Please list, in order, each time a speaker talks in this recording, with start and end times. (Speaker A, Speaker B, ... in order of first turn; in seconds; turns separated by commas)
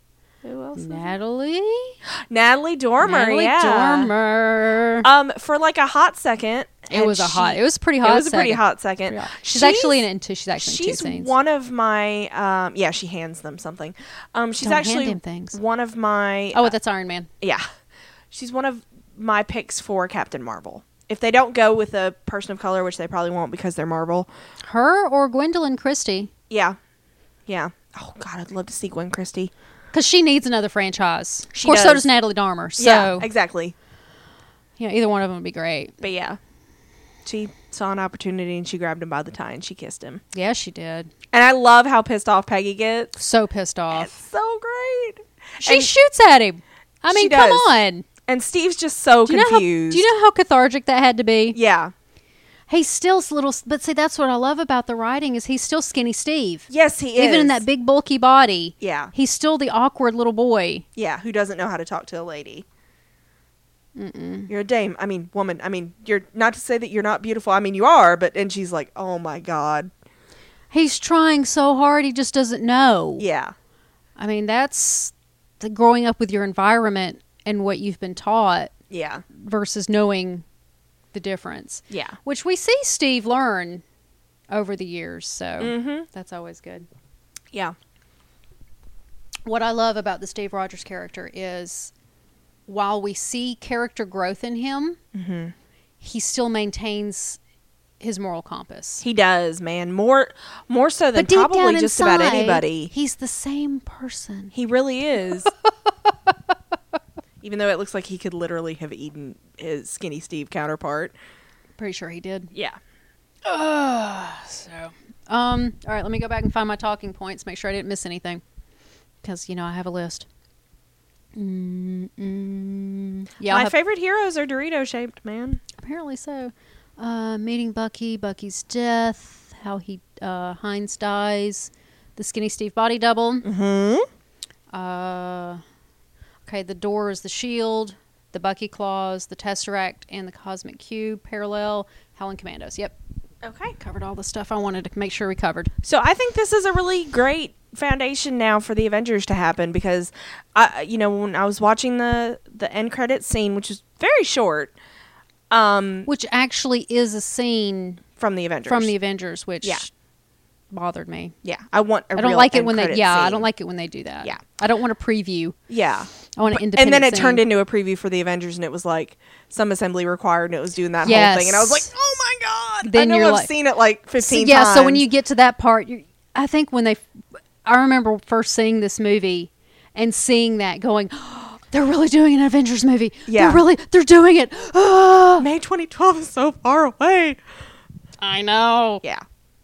Speaker A: 0.4-1.1, Speaker B: 0.7-2.0, Speaker A: 2.3-4.1, Speaker B: 3.0-5.1, Speaker A: 5.0-10.0, Speaker B: 6.9-11.3, Speaker A: 10.6-16.7, Speaker B: 14.6-15.6, Speaker B: 16.5-17.3, Speaker A: 17.4-17.6, Speaker A: 18.3-24.3, Speaker B: 24.6-26.3, Speaker A: 26.5-26.8, Speaker A: 27.5-29.5, Speaker B: 29.9-33.3, Speaker A: 31.5-32.1, Speaker A: 32.8-33.7, Speaker B: 34.8-36.0, Speaker A: 36.0-36.4, Speaker A: 37.2-40.2, Speaker B: 40.3-41.1, Speaker A: 41.3-43.1, Speaker B: 43.1-44.2, Speaker A: 43.9-45.9, Speaker B: 45.6-48.0, Speaker A: 47.1-47.7, Speaker A: 48.2-50.1, Speaker B: 49.3-51.6, Speaker A: 51.5-51.9, Speaker B: 52.7-60.8, Speaker A: 56.7-57.6, Speaker A: 58.8-59.1, Speaker A: 61.0-62.6, Speaker B: 64.0-64.5, Speaker A: 64.5-69.9, Speaker B: 70.7-73.2, Speaker A: 73.2-73.5, Speaker B: 74.2-78.7, Speaker A: 78.9-79.2, Speaker B: 79.3-80.4, Speaker B: 81.1-83.8, Speaker A: 81.9-82.2, Speaker B: 84.5-86.9, Speaker A: 85.6-86.1, Speaker B: 89.4-91.9, Speaker B: 92.7-95.0, Speaker A: 95.1-95.5, Speaker B: 96.0-97.4, Speaker B: 98.0-99.0, Speaker A: 99.0-102.9, Speaker B: 101.1-104.5, Speaker A: 104.5-105.5, Speaker B: 106.1-106.3, Speaker A: 107.4-111.1, Speaker B: 111.8-112.5, Speaker A: 112.5-112.8, Speaker B: 113.4-118.4, Speaker B: 119.2-120.3, Speaker B: 121.3-123.7, Speaker A: 123.4-125.6, Speaker B: 125.8-133.4, Speaker A: 133.4-134.1, Speaker B: 134.7-135.6, Speaker B: 136.4-142.9, Speaker A: 143.4-143.8, Speaker B: 143.8-145.7, Speaker A: 145.8-154.7, Speaker A: 155.5-156.1, Speaker B: 156.1-158.0, Speaker A: 158.2-158.9, Speaker B: 158.7-159.9, Speaker B: 160.7-161.3, Speaker A: 161.4-163.5, Speaker B: 162.1-165.6, Speaker A: 165.7-175.0, Speaker B: 166.3-167.4, Speaker B: 171.0-171.9, Speaker B: 172.8-173.5, Speaker B: 174.2-177.1, Speaker B: 177.6-185.4, Speaker A: 183.3-183.6, Speaker A: 185.4-187.4, Speaker B: 188.2-189.0